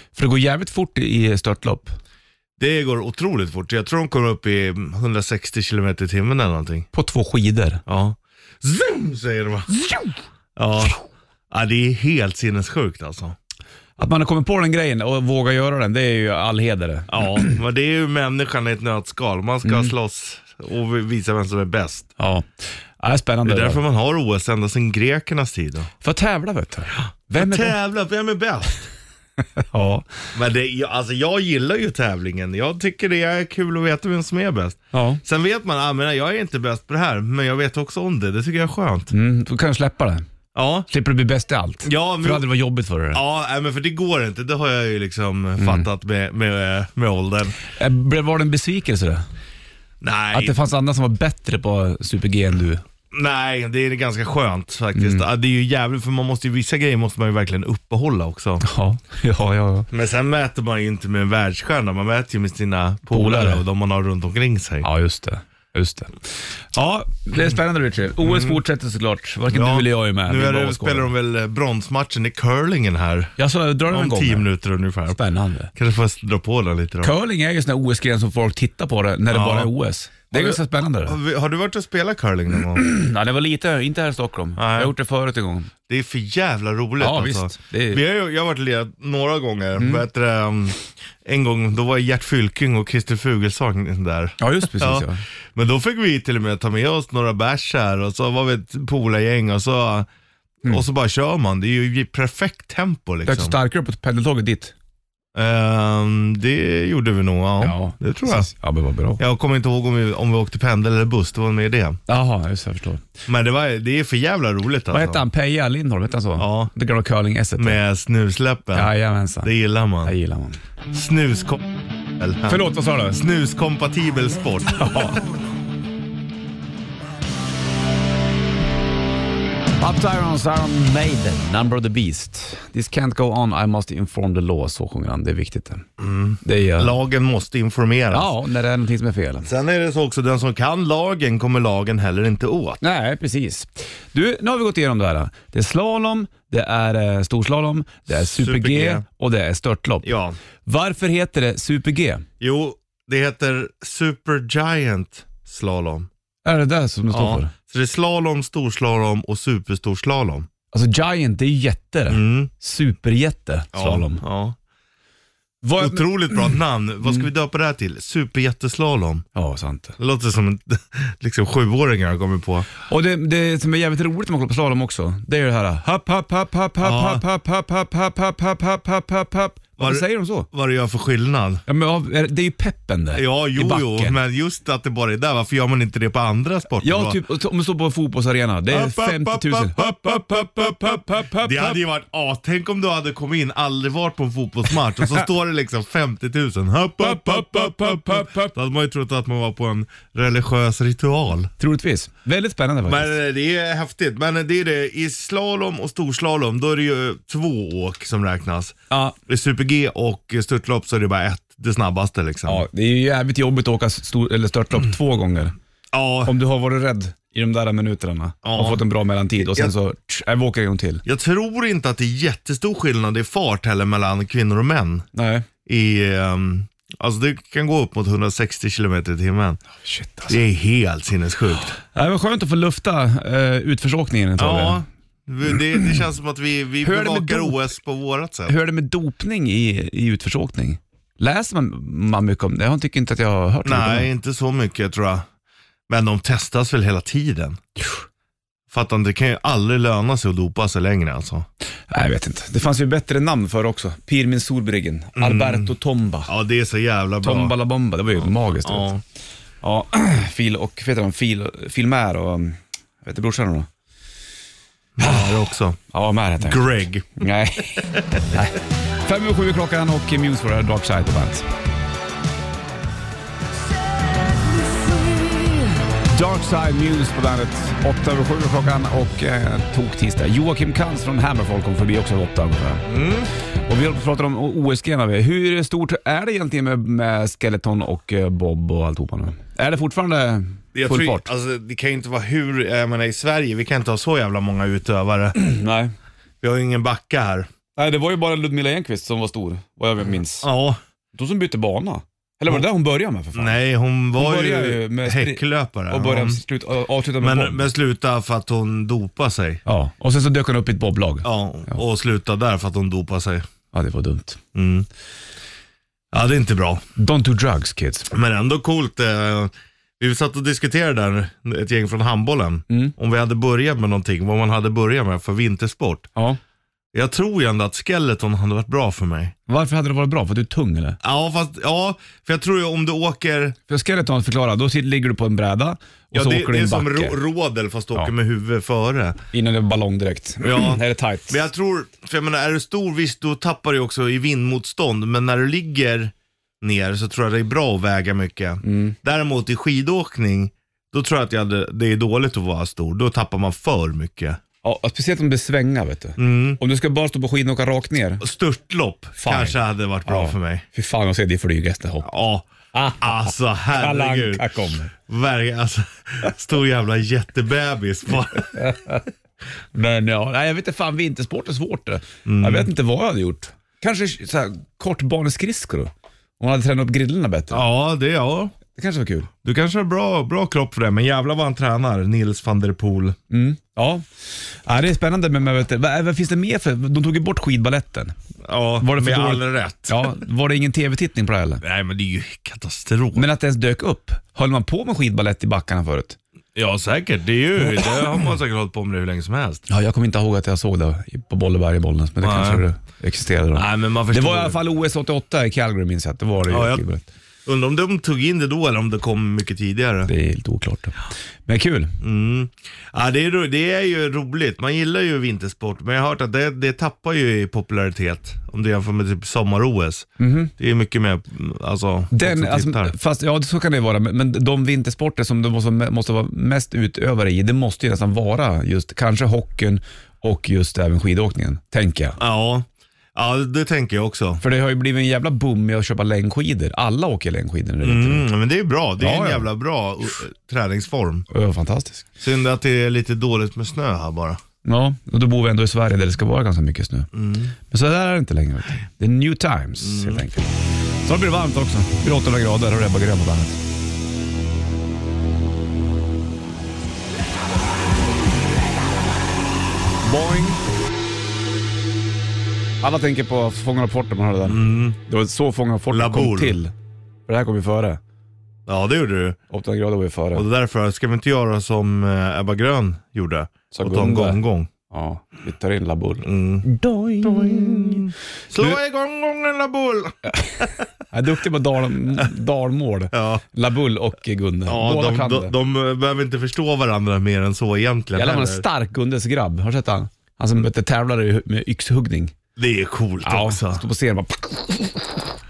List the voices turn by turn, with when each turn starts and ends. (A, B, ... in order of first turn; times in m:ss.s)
0:00.2-0:02.0 A
0:02.6-0:06.9 B
0:06.9-0:07.8 A
0:07.9-0:09.7 B
0:09.7-0:10.2 A
0:10.6-0:11.0 B
0:11.5-0:13.4 B
0:14.0-0:17.6 A
0:17.1-0:22.1 B
0:19.7-0:19.9 A
0:22.2-0:23.8 A
0:23.5-0:25.9 B
0:26.0-0:27.8 A
0:26.9-0:28.9 B
0:29.6-0:30.1 A
0:30.3-0:39.1 B
0:34.9-0:35.2 A
0:39.1-0:40.2 A
0:40.6-0:40.9 B
0:40.9-0:43.2 A
0:41.8-0:42.5 B
0:43.1-0:47.6 B
0:45.6-0:45.9 A
0:47.8-0:49.2 A
0:50.0-0:50.6 B
0:50.3-0:52.8 A
0:53.1-0:58.6 B
0:55.0-0:55.3 A
0:58.6-0:59.9 A
0:59.9-1:04.9 B
1:03.1-1:03.6 A
1:04.8-1:06.1 A
1:06.7-1:11.1 A
1:08.2-1:08.6 B
1:09.5-1:13.4 B
1:13.4-1:14.5 A
1:13.9-1:15.2 B
1:15.1-1:15.7 A
1:15.8-1:17.1 B
1:17.0-1:21.2 A
1:19.3-1:19.7 B
1:20.3-1:22.8 B
1:22.8-1:25.7 A
1:24.6-1:24.9 B
1:25.9-1:40.1 B
1:27.0-1:28.0 A
1:29.8-1:30.0 A
1:34.4-1:35.2 A
1:40.6-1:43.6 B
1:43.3-1:44.7 A
1:45.4-1:48.5 B
1:47.6-1:49.2 A
1:49.2-1:52.0 B
1:52.1-1:53.1 A
1:53.3-1:55.2 B
1:54.9-1:57.8 A
1:56.4-1:56.7 B
1:57.6-1:58.9 B
1:58.7-1:59.5 A
1:59.4-2:00.1 B
2:00.0-2:00.6 A
2:00.9-2:02.6 B
2:02.5-2:03.2 A
2:03.1-2:05.2 B
2:04.7-2:05.3 A
2:09.8-2:15.9 A
2:16.0-2:18.3 B
2:16.4-2:16.9 A
2:18.1-2:19.5 A
2:19.4-2:22.8 B
2:22.8-2:30.1 A
2:28.2-2:29.0 B
2:30.0-2:30.4 B
2:30.7-2:32.3 A
2:32.4-2:36.1 B
2:36.4-2:37.5 A
2:37.1-2:40.5 B
2:40.7-2:44.2 A
2:42.1-2:42.5 B
2:43.7-2:44.6 B
2:45.6-2:46.5 A
2:45.8-2:49.3 B
2:49.4-2:50.0 A
2:50.0-2:52.7 B
2:52.9-3:00.5 A
2:56.8-2:57.2 B
2:59.8-3:01.6 B
3:01.7-3:04.2 A
3:03.1-3:07.2 B
3:06.8-3:11.8 A
3:08.7-3:21.5 B
3:17.0-3:18.6 A
3:21.6-3:23.2 A
3:22.8-3:32.6 B
3:28.9-3:29.2 A
3:32.5-3:35.6 A
3:35.9-3:36.4 B
3:36.2-3:41.0 A
3:38.4-3:38.8 B
3:39.4-3:39.7 B
3:41.0-3:45.1 B
3:45.1-3:45.5 A
3:45.7-3:49.6 B
3:49.8-3:50.4 A
3:50.3-3:51.8 B
3:51.9-3:54.8 A
3:54.4-3:58.6 B
3:55.8-3:56.0 A
3:56.8-3:57.6 A
3:58.5-4:04.1 A
4:03.6-4:05.3 B
4:05.9-4:07.6 B
4:08.7-4:11.5 B
4:11.9-4:16.3 A
4:15.2-4:15.7 B
4:16.3-4:17.5 B
4:17.2-4:18.9 A
4:18.2-4:19.0 B
4:19.6-4:23.7 A
4:25.0-4:25.8 B
4:25.0-4:25.4 A
4:25.9-4:26.6 A
4:26.4-4:27.3 B
4:27.2-4:31.5 A
4:27.8-4:28.2 B
4:34.4-4:42.9 A
4:42.9-4:43.3 B
4:43.7-4:51.3 A
4:50.7-4:55.4 B
4:55.4-4:55.9 A
4:56.4-4:57.5 B
4:57.8-5:00.5 A
5:00.4-5:00.8 B
5:01.1-5:03.6 A
5:03.4-5:06.4 B
5:04.1-5:07.7 A
5:07.2-5:09.6 B
5:09.7-5:11.8 A
5:11.2-5:13.5 B
5:13.7-5:14.4 A
5:14.6-5:14.9 B
5:16.1-5:16.8 B
5:17.0-5:18.1 A
5:18.1-5:26.1 B
5:22.7-5:23.0 A
5:26.9-5:29.4 B
5:29.5-5:31.0 A
5:31.0-5:33.6 B
5:33.7-5:37.2 A
5:36.1-5:39.2 B
5:39.3-5:41.4 A
5:40.4-5:54.4 B
5:48.6-5:49.0 A
5:54.6-5:58.2 A
5:56.2-5:56.6 B
5:58.2-6:00.6 B
5:59.2-6:02.1 A
6:02.0-6:08.6 B
6:02.7-6:04.9 A
6:08.5-6:09.0 A
6:09.8-6:17.6 A
6:12.2-6:12.7 B
6:17.5-6:18.6 B
6:18.7-6:19.3 A
6:19.4-6:23.2 B
6:23.3-6:24.1 A
6:24.6-6:28.2 A
6:28.4-6:30.1 B
6:28.8-6:31.6 A
6:31.6-6:33.3 B
6:33.1-6:36.2 A
6:36.6-6:39.6 B
6:39.7-6:47.1 A
6:42.2-6:42.6 B
6:43.6-6:44.6 B
6:46.5-6:46.8 B
6:47.5-6:50.1 B
6:50.1-6:52.0 A
6:52.0-7:03.0 B
7:00.2-7:00.5 A
7:02.1-7:12.2 A
7:12.2-7:14.4 B
7:14.4-7:18.3 A
7:17.8-7:21.3 B
7:19.0-7:19.5 A
7:21.3-7:22.1 A
7:22.2-7:24.4 B
7:24.6-7:27.1 A
7:27.1-7:27.5 B
7:27.7-7:30.5 A
7:29.8-7:30.2 B
7:31.0-7:33.6 A
7:40.0-7:40.6 A
7:42.8-7:46.7 A
7:44.5-7:45.0 B
7:45.9-7:46.6 B
7:47.3-7:48.0 A
7:48.7-7:49.4 B
7:49.5-7:50.4 A
7:50.4-7:54.7 B
7:53.7-7:58.8 A
7:56.2-7:56.7 B
7:57.2-8:00.8 B
8:00.3-8:05.5 A
8:03.1-8:03.4 B
8:04.7-8:08.6 B
8:08.1-8:12.4 A
8:12.6-8:13.8 B
8:13.2-8:15.1 A